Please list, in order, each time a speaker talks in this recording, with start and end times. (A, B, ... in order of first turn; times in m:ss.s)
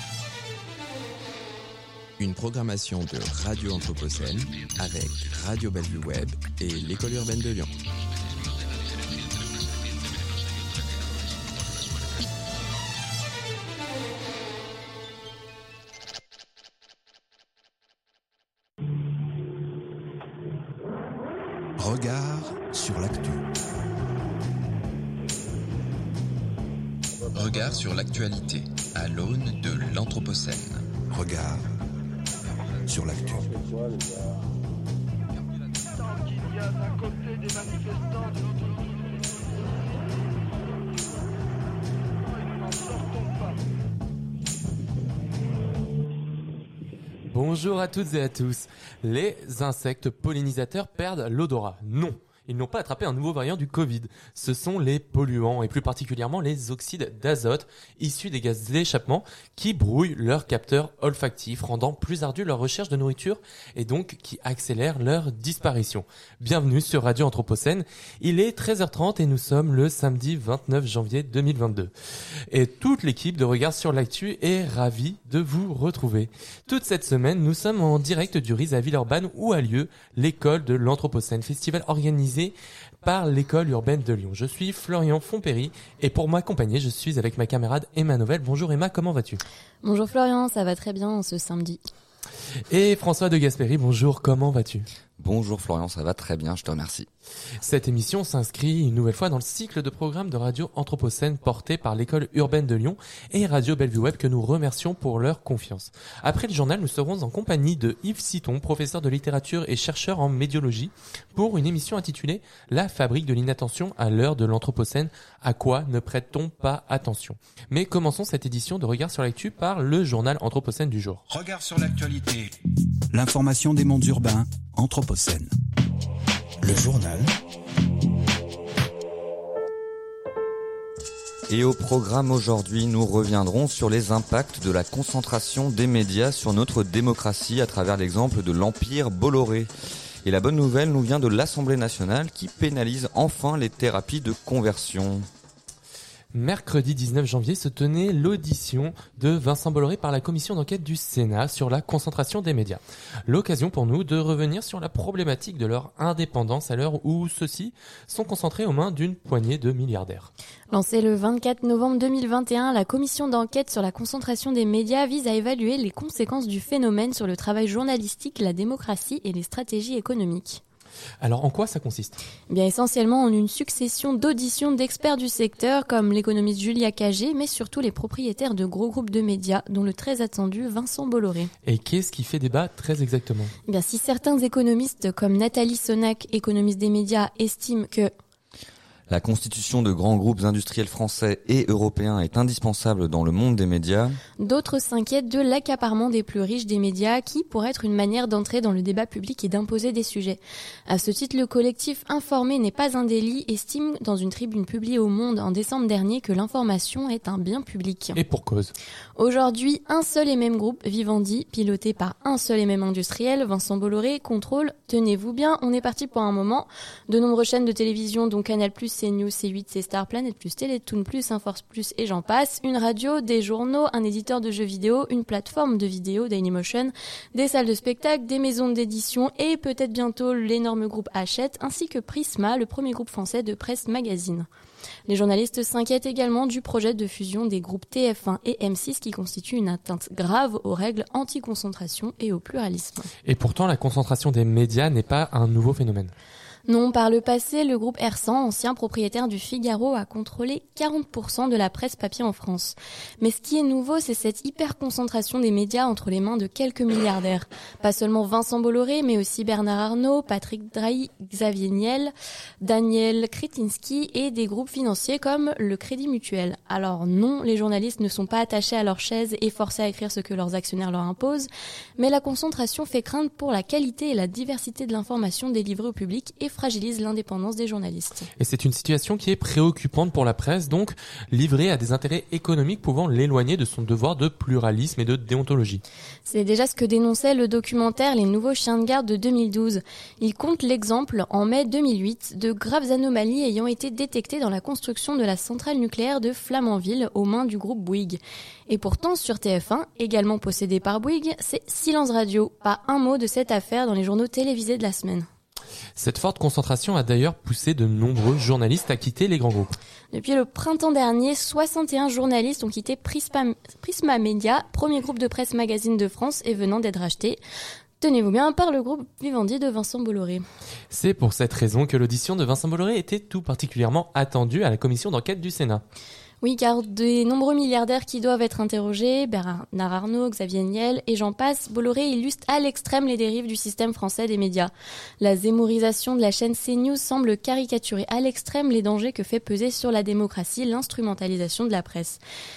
0:02.2-0:07.7 A
0:21.8-0:23.4 B
0:27.3-0:30.8 A
0:31.1-0:31.7 B
0:32.9-0:33.6 B
0:47.3-1:11.9 C
1:12.5-1:29.4 C
1:29.8-1:31.8 D
1:32.7-1:34.9 C
1:35.2-1:37.1 E
1:37.6-2:01.2 C
2:01.3-2:02.6 B
2:03.1-2:05.5 B
2:06.6-2:07.3 B
2:11.5-2:19.7 E
2:20.2-2:25.3 E
2:26.3-2:40.3 C
2:40.7-2:50.6 D
2:51.2-2:52.2 C
2:52.5-3:01.5 D
3:01.6-3:03.5 C
3:03.7-3:08.1 D
3:09.1-3:14.2 E
3:14.4-3:28.2 D
3:28.2-3:28.7 C
3:29.2-3:54.5 D
3:55.1-4:03.1 D
4:03.2-4:06.1 C
4:06.7-4:38.3 D
4:38.4-4:45.8 C
4:46.3-5:05.3 D
5:06.0-5:09.7 C
5:10.1-5:17.4 D
5:18.0-5:20.4 D
5:20.9-5:25.8 C
5:26.4-5:42.2 D